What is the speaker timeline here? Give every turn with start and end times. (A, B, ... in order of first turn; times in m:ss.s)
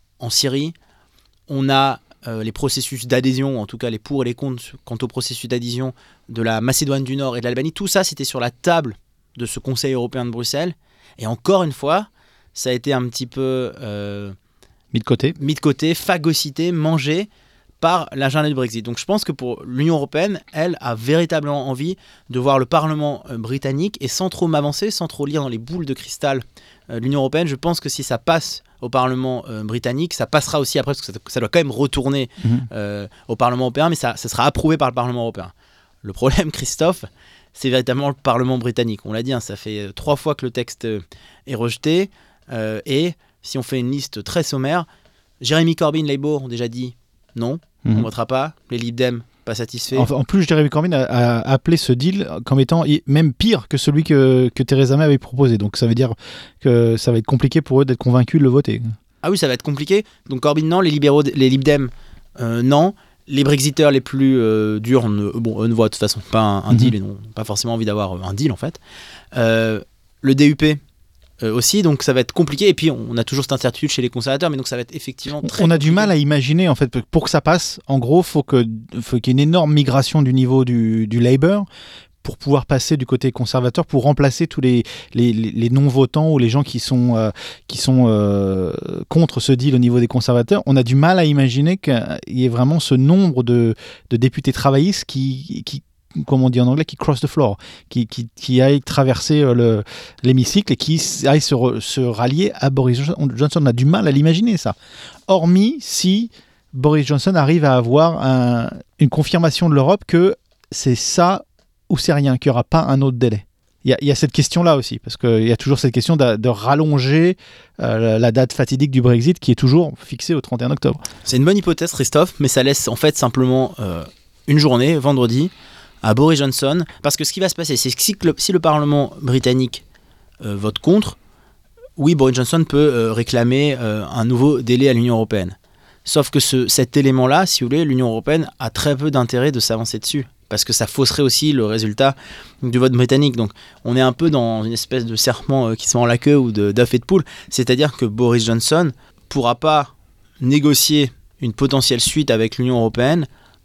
0:00.2-0:00.7 A
0:01.5-0:14.4 A
0:14.9-0:15.3 B
0:15.4-0:17.3 A
0:17.8-0:44.8 A
0:45.4-0:50.1 A
0:49.9-0:58.8 B
0:59.2-1:08.8 A
1:09.3-1:10.8 A
1:11.4-1:16.1 A
1:15.4-1:21.6 B
1:22.2-1:44.8 B
1:45.3-2:01.0 B
2:01.2-2:05.5 A
2:06.0-2:09.8 A
2:10.4-2:11.2 A
2:12.0-2:33.3 A